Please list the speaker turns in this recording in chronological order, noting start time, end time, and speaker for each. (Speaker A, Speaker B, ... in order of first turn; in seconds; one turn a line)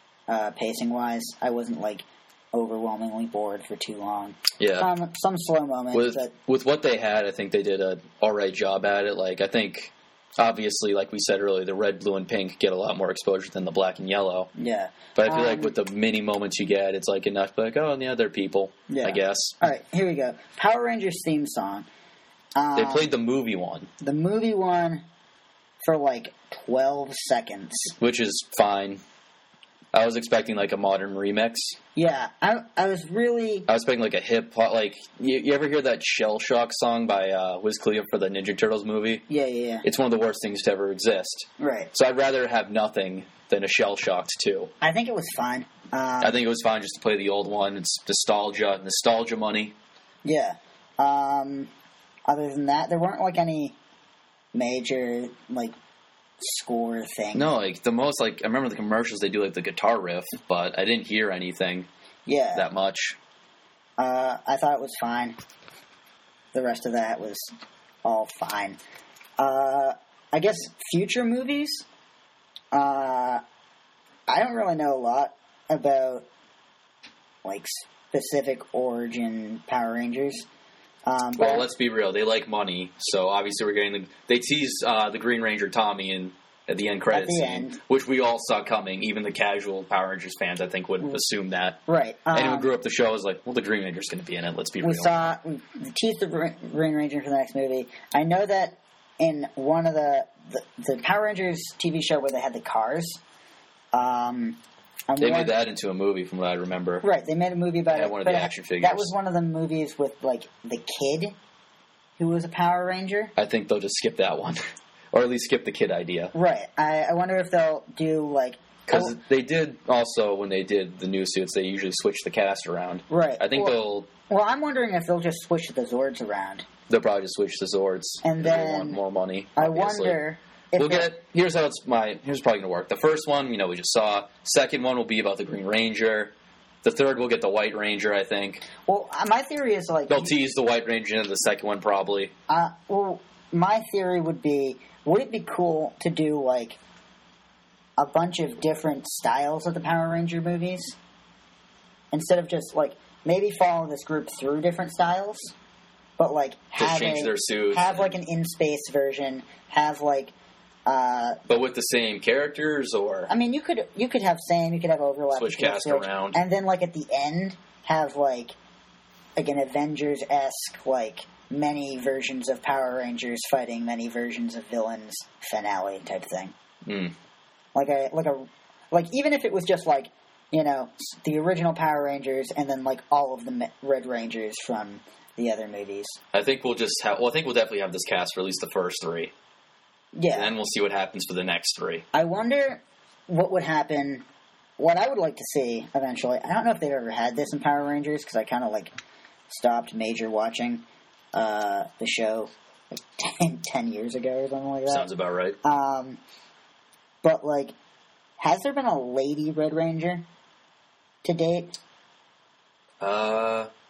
Speaker A: 0.3-6.3
Speaker B: 4.6-4.9
Speaker B: 5.9-14.5
Speaker A: 14.6-15.7
Speaker B: 15.2-19.6
Speaker A: 18.9-21.9
Speaker A: 22.6-23.1
Speaker B: 22.7-23.9
Speaker A: 24.0-25.0
Speaker A: 25.8-27.9
Speaker B: 28.0-29.0
Speaker B: 29.9-31.8
Speaker A: 31.9-33.7
Speaker B: 33.7-39.2
Speaker A: 39.3-39.9
Speaker B: 39.8-44.7
Speaker A: 41.6-41.9
Speaker A: 44.8-46.4
Speaker B: 46.2-49.7
Speaker A: 50.2-51.7
Speaker A: 52.3-53.8
Speaker A: 54.5-55.7
Speaker A: 56.4-57.5
Speaker B: 57.3-61.9
Speaker A: 62.2-62.7
Speaker B: 62.5-63.2
Speaker A: 64.0-65.4
Speaker A: 66.5-67.5
Speaker A: 68.0-68.8
Speaker A: 69.4-71.8
Speaker A: 72.7-73.4
Speaker A: 74.3-76.2
Speaker A: 77.4-80.5
Speaker A: 81.1-81.7
Speaker B: 81.4-91.8
Speaker A: 87.1-87.8
Speaker A: 91.9-92.7
Speaker B: 92.3-95.1
Speaker A: 94.8-103.2
Speaker A: 103.9-104.6
Speaker A: 105.1-105.5
Speaker B: 105.2-107.0
Speaker A: 107.0-111.4
Speaker B: 107.9-109.1
Speaker A: 112.2-113.3
Speaker B: 113.4-114.6
Speaker B: 115.1-116.3
Speaker A: 116.3-119.2
Speaker B: 118.9-124.1
Speaker A: 123.1-123.8
Speaker A: 124.3-126.7
Speaker B: 126.9-130.2
Speaker A: 128.2-129.0
Speaker A: 129.6-131.1
Speaker B: 130.8-136.3
Speaker B: 136.8-138.6
Speaker A: 138.8-140.3
Speaker B: 140.1-142.3
Speaker A: 142.5-146.8
Speaker A: 148.0-150.9
Speaker A: 152.1-155.5
Speaker A: 156.2-160.3
Speaker B: 156.8-158.1
Speaker A: 160.9-161.4
Speaker B: 161.5-163.3
Speaker A: 163.3-168.6
Speaker B: 165.3-166.4
Speaker A: 169.4-176.6
Speaker B: 176.8-177.1
Speaker A: 177.7-186.2
Speaker B: 186.3-189.3
Speaker A: 190.1-190.5
Speaker B: 190.3-192.1
Speaker A: 192.1-194.2
Speaker A: 194.8-198.9
Speaker A: 199.5-205.1
Speaker B: 204.9-205.6
Speaker A: 205.6-206.2
Speaker A: 207.2-207.7
Speaker A: 208.4-210.2
Speaker A: 211.2-211.8
Speaker B: 213.0-213.7